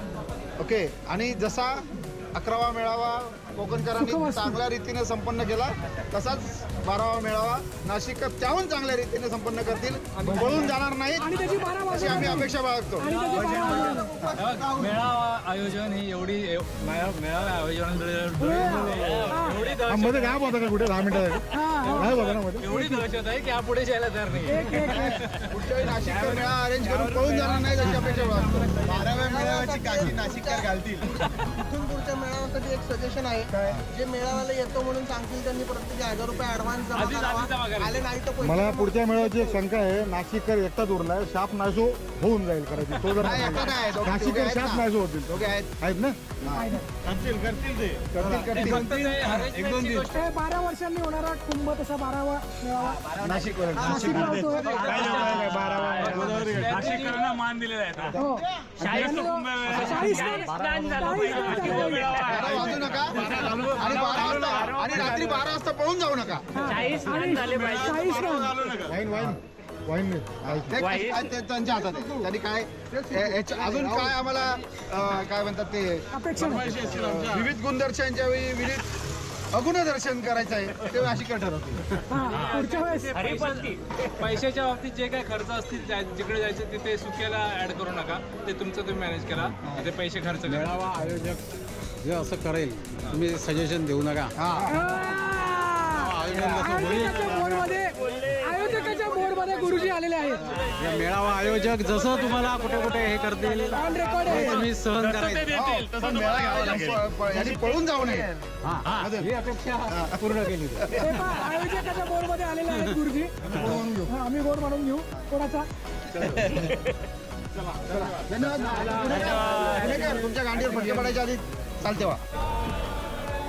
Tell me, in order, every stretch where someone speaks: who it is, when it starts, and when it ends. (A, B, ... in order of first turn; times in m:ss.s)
0:00.6-0:13.7 A
0:04.0-0:04.6 B
0:10.3-0:10.7 C
0:11.2-0:14.1 B
0:13.0-0:20.4 D
0:13.8-0:15.0 E
0:18.4-0:19.6 B
0:18.6-0:22.9 C
0:21.6-0:22.0 B
0:21.6-0:28.7 D
0:24.5-0:25.1 B
0:25.5-0:31.2 A
0:29.2-0:39.6 E
0:33.5-0:33.8 A
0:36.9-0:38.0 D
0:38.4-0:46.4 C
0:43.1-0:45.7 A
0:43.2-0:44.2 E
0:46.4-0:46.8 A
0:46.6-0:46.9 B
0:47.2-0:48.7 C
0:48.1-0:49.6 A
0:48.5-0:50.3 D
0:50.1-0:53.1 B
0:53.2-0:56.0 A
0:53.8-0:54.5 E
0:53.8-0:54.8 B
0:54.6-0:58.2 D
0:54.7-0:56.5 C
0:55.8-0:57.1 F
0:58.2-1:02.3 B
0:58.6-0:59.2 A
0:58.8-1:05.2 D
0:59.6-1:01.0 F
1:02.2-1:06.8 A
1:06.6-1:08.6 B
1:07.2-1:07.8 F
1:07.5-1:07.9 D
1:08.7-1:10.9 C
1:10.4-1:18.9 A
1:13.7-1:14.0 C
1:16.1-1:16.7 B
1:16.7-1:17.1 F
1:19.5-1:22.0 A
1:22.1-1:23.2 B
1:22.3-1:30.7 D
1:30.4-1:31.4 F
1:32.0-1:34.3 F
1:34.4-1:34.8 A
1:34.7-1:40.5 B
1:35.9-1:37.8 F
1:40.5-1:45.5 F
1:43.7-1:44.5 B
1:44.4-1:46.9 D
1:45.5-1:48.3 A
1:47.5-1:48.5 E
1:48.6-1:51.0 F
1:48.9-1:49.3 A
1:49.9-1:50.2 A
1:50.8-1:51.2 A
1:51.0-1:53.3 B
1:52.7-1:53.0 F
1:53.6-1:54.0 A
1:53.6-1:54.1 C
1:54.1-1:55.7 B
1:56.1-1:56.7 A
1:57.8-2:02.2 A
1:58.9-1:59.8 D